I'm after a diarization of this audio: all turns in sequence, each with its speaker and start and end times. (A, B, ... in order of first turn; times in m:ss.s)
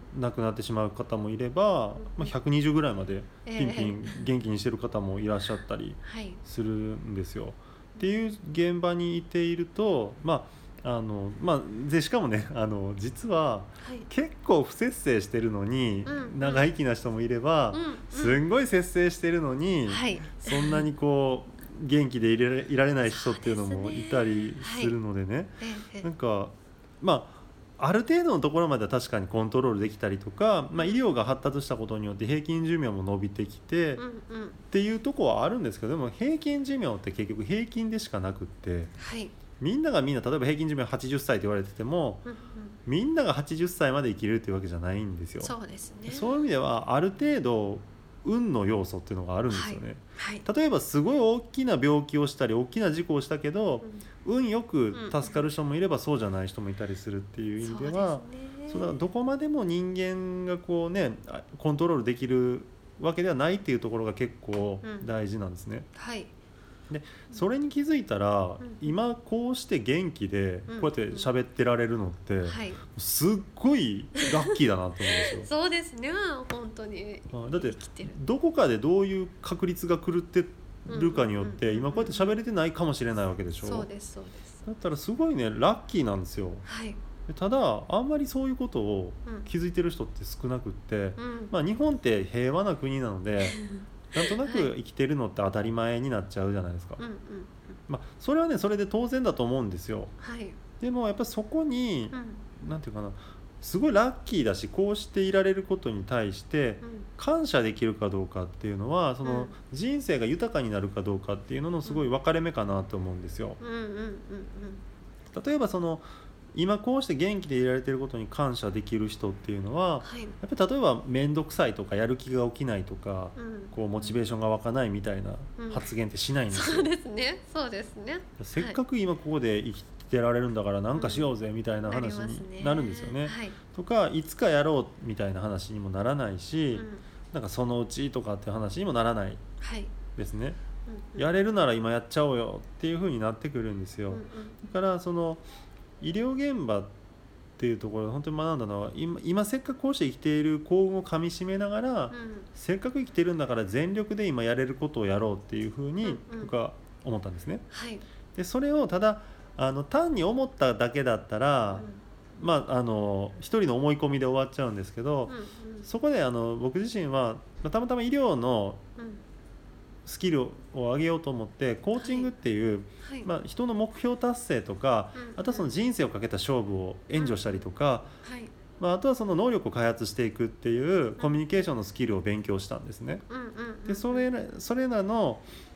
0:00.1-0:34.0 A
0:02.0-0:02.4 B
0:03.4-0:04.1 B
0:06.0-0:06.4 B
0:13.8-0:14.1 B
0:16.1-0:16.7 B
0:17.7-0:18.4 B
0:19.9-0:20.8 B
0:23.1-0:25.0 B
0:25.6-0:26.1 B
0:30.8-0:31.0 B
0:34.0-0:34.6 B
0:34.7-0:38.9 A
0:39.0-0:39.4 B
0:39.6-0:42.3 A
0:42.3-0:42.8 B
0:42.9-0:45.6 A
0:45.4-0:46.4 B
0:46.1-1:05.9 A
0:49.5-0:50.5 B
0:54.9-0:55.4 B
0:57.6-0:59.0 B
1:04.8-1:05.1 B
1:06.0-1:06.3 B
1:06.9-1:15.5 A
1:08.6-1:09.0 B
1:10.7-1:11.3 B
1:12.4-1:12.8 B
1:15.1-1:18.2 B
1:17.3-1:23.9 A
1:20.9-1:22.4 B
1:23.6-1:24.6 B
1:24.7-1:26.6 A
1:26.7-1:27.0 B
1:27.3-1:33.6 A
1:31.2-1:31.5 B
1:33.4-1:34.7 B
1:34.1-1:37.0 A
1:37.0-1:37.8 B
1:37.9-1:40.2 A
1:40.2-1:40.6 B
1:40.8-1:53.6 A
1:42.1-1:42.4 B
1:46.8-1:47.1 B
1:49.2-1:49.5 B
1:53.6-1:54.8 B
1:55.3-2:06.9 A
2:00.0-2:00.4 B
2:03.4-2:04.2 B
2:05.6-2:05.9 B
2:06.5-2:08.8 B
2:08.4-2:19.4 A
2:10.9-2:11.3 B
2:11.8-2:13.6 B
2:16.7-2:17.0 B
2:19.6-2:19.9 B
2:20.2-2:20.6 A
2:20.9-2:21.3 B
2:21.2-2:25.4 A
2:24.1-2:24.6 B
2:26.0-2:26.9 A
2:27.6-2:37.6 A
2:32.1-2:32.5 B
2:36.0-2:36.5 B
2:37.7-2:38.0 B
2:38.4-2:48.8 A
2:41.7-2:42.0 B
2:45.3-2:45.9 B
2:49.0-2:49.2 B
2:50.1-2:58.1 A
2:52.0-2:52.3 B
2:53.0-2:53.3 B
2:55.2-2:55.7 B
2:57.2-2:57.6 B
2:58.2-2:58.5 B
2:58.8-3:03.2 A
3:03.3-3:04.3 B
3:03.9-3:05.5 A